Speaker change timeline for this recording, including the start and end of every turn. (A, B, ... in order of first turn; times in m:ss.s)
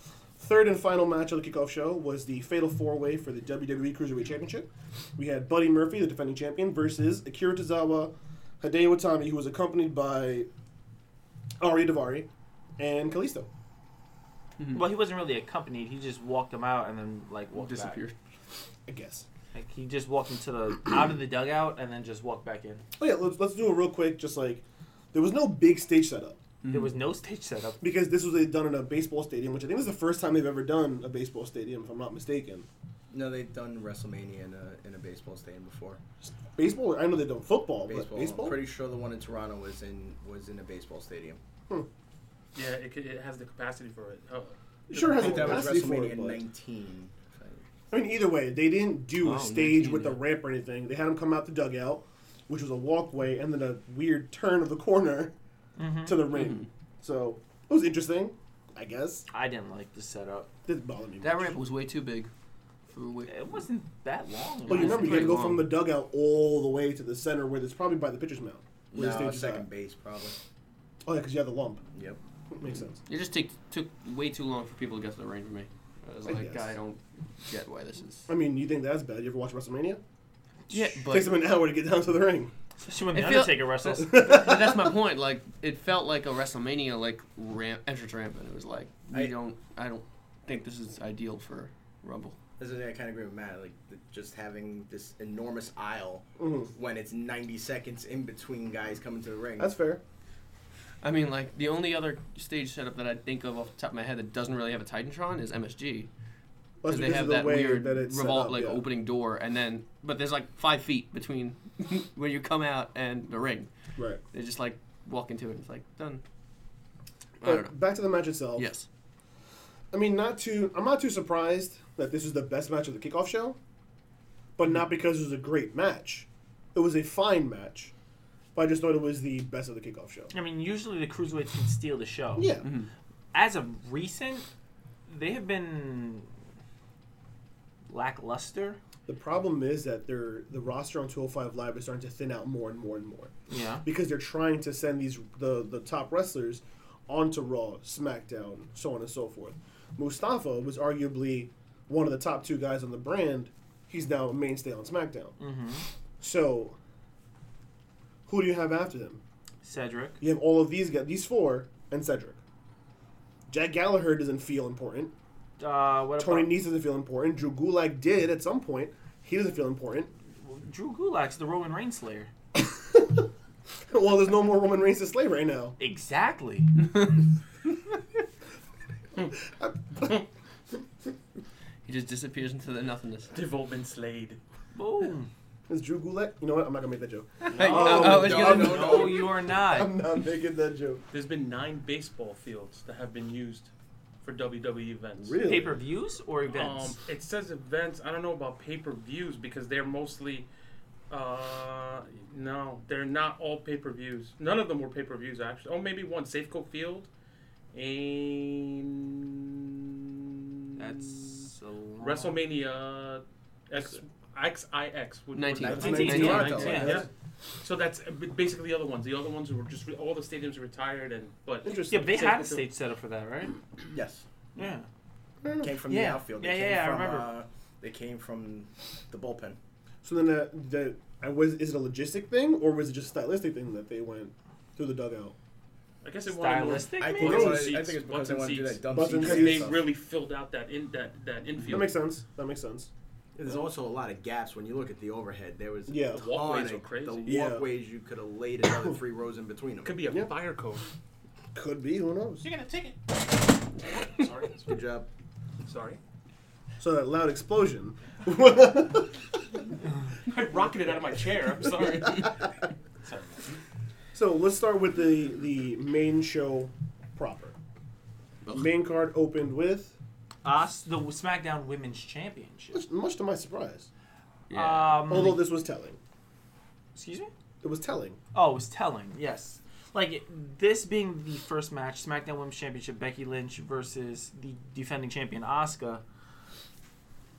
0:00.4-0:10.5 A
0:11.6-0:13.5 A
0:14.6-0:14.8 B
0:14.7-0:18.0 C
0:17.5-0:18.1 B
0:18.9-0:19.2 A
0:19.5-0:22.8 C
0:23.0-0:26.4 A
0:26.6-0:27.0 B
0:26.7-0:27.8 C
0:27.8-0:32.7 A
0:33.1-0:36.0 D
0:36.2-0:38.7 A
0:37.9-0:41.4 D
0:42.5-0:45.7 E
0:44.9-0:46.4 A
0:45.0-0:47.6 D
0:47.9-0:55.3 A
0:49.2-0:50.2 B
0:55.8-0:56.3 C
0:56.0-0:59.2 A
0:59.3-1:00.5 C
1:00.6-1:01.6 A
1:01.2-1:02.3 B
1:02.9-1:03.4 B
1:03.2-1:05.4 C
1:04.6-1:05.7 B
1:04.7-1:09.6 A
1:08.9-1:10.4 D
1:11.0-1:11.8 A
1:11.9-1:12.2 D
1:12.5-1:13.0 A
1:13.0-1:18.3 B
1:16.3-1:16.6 A
1:18.3-1:20.0 A
1:20.7-1:21.3 B
1:20.7-1:22.5 A
1:22.8-1:24.3 C
1:23.1-1:32.4 B
1:24.0-1:24.9 A
1:32.6-1:39.7 D
1:36.4-1:36.7 A
1:39.6-1:40.0 A
1:41.0-1:46.1 B
1:46.8-1:48.8 A
1:46.8-1:53.7 B
1:54.0-1:54.2 A
1:54.3-1:56.2 B
1:57.4-1:57.7 B
1:57.4-1:58.7 A
1:58.6-1:58.8 B
1:59.9-2:03.6 A
2:04.6-2:07.9 A
2:08.5-2:10.3 A
2:10.3-2:12.6 C
2:12.4-2:12.7 A
2:12.6-2:12.9 B
2:13.3-2:14.4 C
2:15.1-2:16.3 C
2:17.9-2:18.8 C
2:19.1-2:23.3 A
2:23.5-2:23.8 C
2:23.8-2:35.3 A
2:35.4-2:35.8 C
2:36.2-2:36.8 A
2:38.3-2:39.2 A
2:39.6-2:40.2 C
2:40.2-2:42.4 A
2:43.5-2:45.1 A
2:45.6-2:46.5 C
2:46.2-2:50.1 A
2:50.4-2:52.3 C
2:52.6-2:53.3 A
2:53.9-2:55.8 A
2:55.8-2:56.7 C
2:59.5-3:00.2 A
3:01.8-3:03.3 B
3:03.3-3:04.4 E
3:04.7-3:05.3 C
3:05.7-3:11.0 A
3:07.5-3:08.8 B
3:07.5-3:10.0 C
3:07.6-3:09.3 D
3:11.1-3:13.7 E
3:14.2-3:15.4 E
3:15.2-3:15.8 A
3:15.4-3:17.0 C
3:16.5-3:20.5 E
3:21.1-3:27.1 E
3:27.7-3:31.4 E
3:30.8-3:32.4 C
3:32.0-3:37.1 E
3:35.3-3:36.9 B
3:35.6-3:37.0 D
3:35.7-3:37.1 A
3:35.8-3:37.0 C
3:37.6-3:42.6 E
3:41.6-3:42.1 A
3:41.9-3:43.6 C
3:43.9-3:44.2 D
3:44.5-3:44.9 C
3:45.4-3:45.7 A
3:45.6-3:49.6 D
3:45.9-3:47.3 C
3:50.0-3:55.3 A
3:56.0-4:01.9 E
3:56.3-3:57.8 C
3:57.0-3:59.8 D
3:57.2-3:57.7 A
3:58.9-3:59.7 A
4:01.7-4:02.9 A
4:03.4-4:10.0 D
4:05.9-4:06.3 A
4:06.1-4:07.4 E
4:07.2-4:07.6 A
4:09.8-4:10.8 E
4:11.5-4:12.4 A
4:12.4-4:13.2 E
4:13.9-4:14.8 E
4:14.7-4:15.1 D
4:15.6-4:16.0 E
4:16.8-4:19.2 A
4:20.2-4:22.5 E
4:23.0-4:23.5 E
4:24.1-4:27.6 A
4:28.5-4:29.9 A
4:30.4-4:32.8 C
4:32.7-4:33.9 A
4:34.5-4:35.3 B
4:34.5-4:35.4 C
4:35.1-4:36.0 A
4:36.9-4:37.3 C
4:37.6-4:38.2 A
4:38.3-4:46.0 C